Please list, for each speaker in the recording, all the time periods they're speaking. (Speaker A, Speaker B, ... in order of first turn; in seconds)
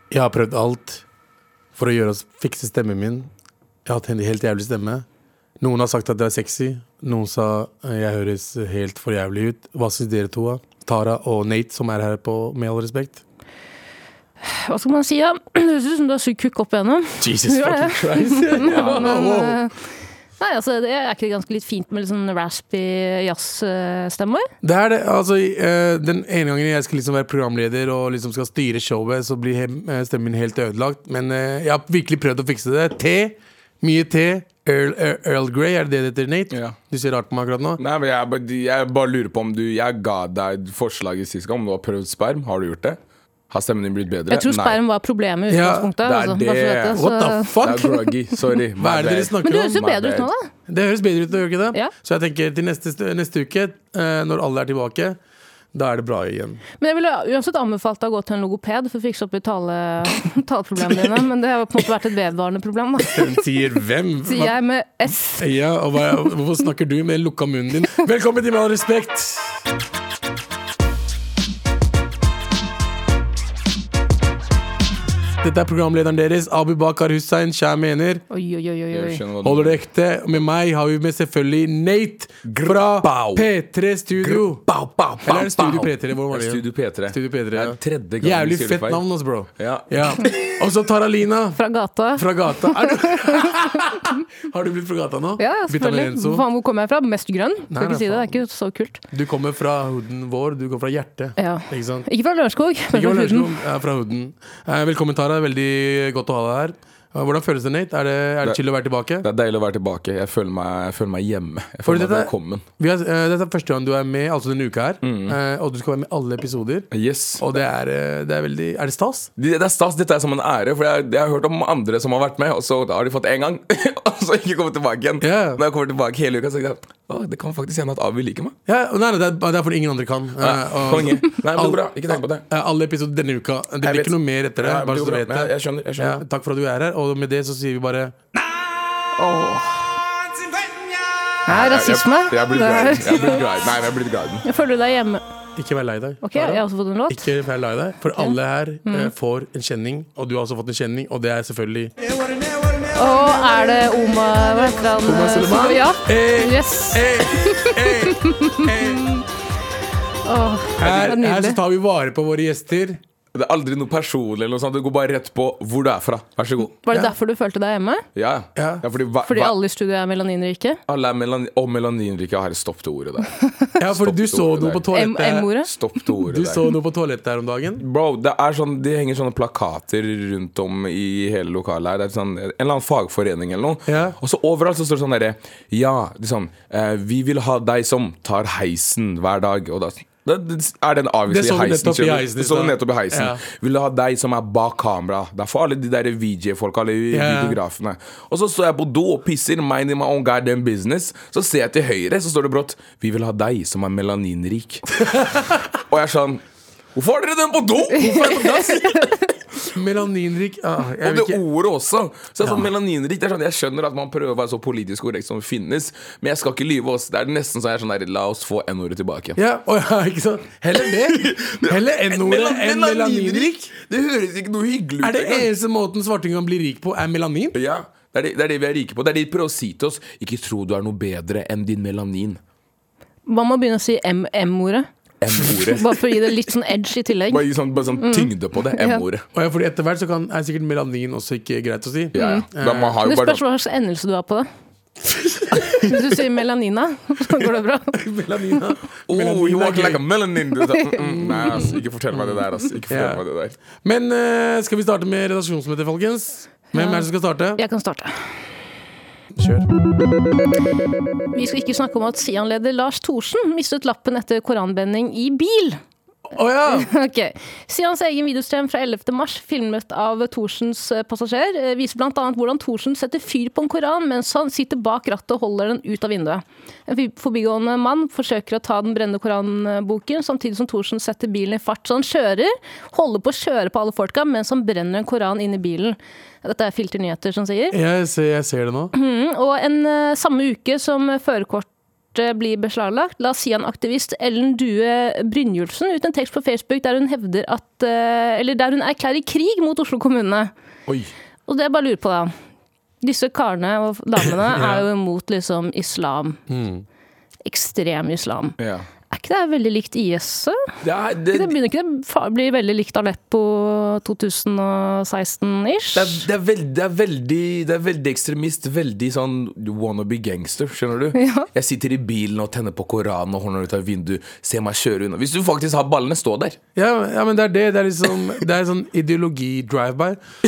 Speaker A: 0.1-1.0, 1.8-3.3, 3.9-5.0, 5.6-13.2, 17.2-19.7, 24.6-37.8, 45.5-45.9, 46.9-48.0, 48.8-49.8, 50.7-55.2, 55.7-56.6, 63.1-64.5, 65.4-69.6, 75.4-78.2, 79.4-84.7, 85.2-91.6, 92.2-96.4, 97.7-98.4, 99.1-102.1, 102.9-109.3, 111.9-119.3, 125.2-125.6, 128.7-138.2, 145.6-152.0, 155.0-159.2, 160.8-163.0, 168.6-168.8, 173.8-175.5, 176.2-177.8, 183.9-184.2, 191.3-193.4, 197.1-197.6, 205.1-205.4, 208.0-208.9, 209.7-211.4, 219.4-223.7, 225.0-227.6, 239.3-243.0, 247.9-250.1, 251.0-253.2, 253.8-257.6, 259.3-259.7, 266.3-266.9, 287.7-288.9, 304.5-304.9, 306.5-306.9, 326.8-330.2
Speaker B: 14.4-19.7, 20.4-24.5, 44.3-47.6, 49.4-50.5, 56.8-63.4, 64.3-65.5, 78.3-79.2, 91.6-94.0, 95.4-99.0, 101.4-103.5, 139.2-139.9, 141.5-143.4, 144.4-145.2, 146.2-147.3, 148.9-149.1, 152.9-159.0, 160.2-161.6, 166.8-168.1, 169.2-170.8, 174.9-175.7, 208.1-209.1, 233.3-234.9, 235.5-237.5, 238.0-239.0, 242.2-242.5, 243.0-244.5, 245.8-248.0, 256.8-257.1, 257.6-258.3, 261.3-265.8, 266.7-287.8, 288.9-300.5, 301.5-302.3, 303.0-306.4, 307.4-308.6, 309.1-310.6, 311.3-316.2, 321.1-321.5
Speaker C: 18.6-19.2, 36.5-36.8, 37.8-44.8, 46.0-47.0, 47.6-50.3, 78.9-79.8, 82.5-83.5, 84.2-89.0, 89.6-90.3, 109.2-112.7, 115.0-115.4, 116.9-117.5, 119.4-128.6, 130.4-132.4, 133.8-136.2, 141.5-144.4, 163.3-166.8, 168.2-169.6, 170.9-173.3, 173.9-174.9, 175.6-176.7, 177.8-205.0, 205.9-206.4, 206.9-209.2, 211.0-219.4, 221.0-225.5, 227.5-232.4, 235.2-236.2, 237.3-239.2, 242.1-243.4, 249.1-253.6, 300.9-301.1, 308.6-308.9, 310.8-311.6, 315.9-326.6